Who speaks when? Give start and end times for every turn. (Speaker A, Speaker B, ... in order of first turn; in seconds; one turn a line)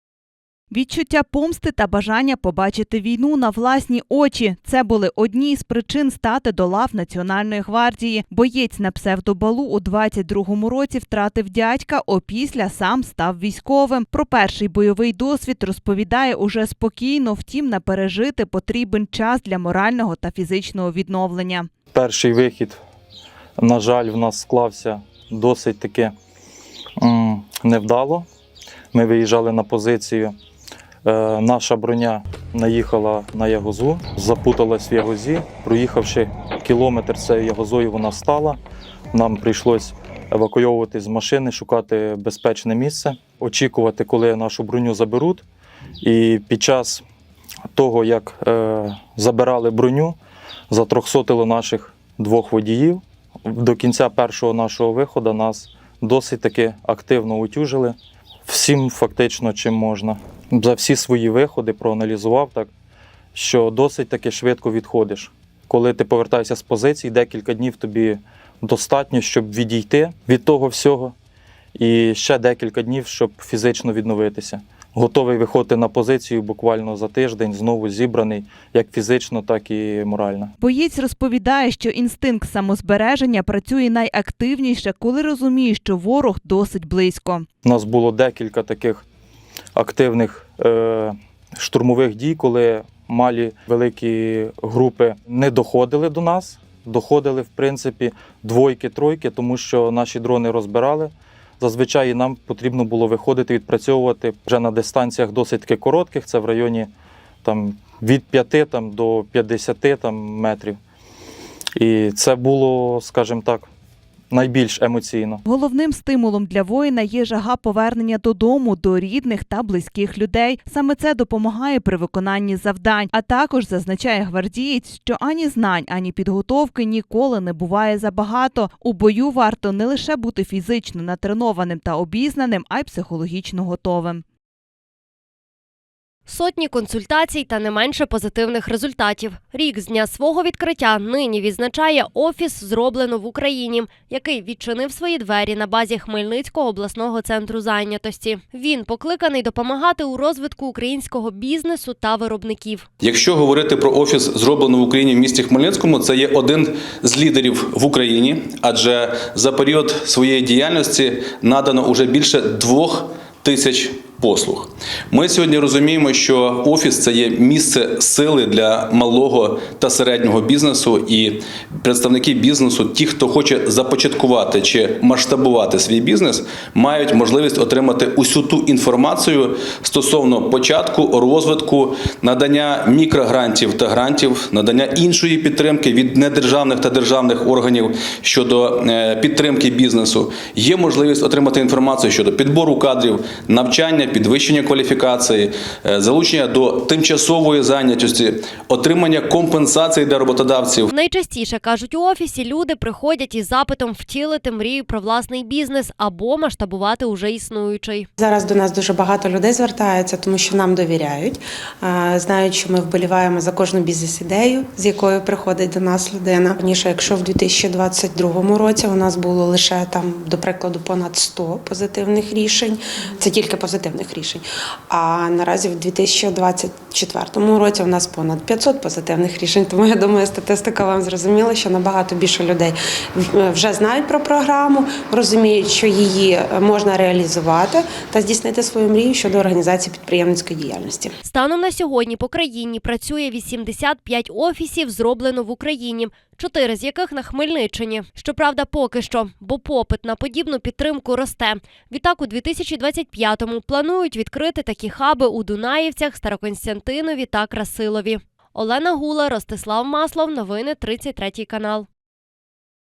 Speaker A: 0.7-21.7
Speaker B: 21.9-22.8
Speaker B: 23.6-26.1
Speaker B: 27.0-28.3
Speaker B: 28.9-30.3
Speaker B: 31.0-38.6
Speaker B: 39.1-45.4
Speaker B: 46.0-47.0
Speaker B: 47.7-50.1
Speaker B: 50.7-58.0
Speaker B: 58.5-62.7
Speaker B: 63.3-71.1
Speaker B: 71.8-80.5
Speaker A: 80.6-87.5
Speaker B: 87.6-89.0
Speaker B: 89.8-106.9
Speaker B: 107.4-110.8
Speaker B: 111.8-113.7
Speaker B: 114.3-115.4
Speaker A: 115.5-134.2
Speaker C: 136.2-152.8
Speaker D: 153.0-200.9
Speaker C: 200.9-208.1
Speaker E: 208.2-241.1
Speaker C: 241.2-261.9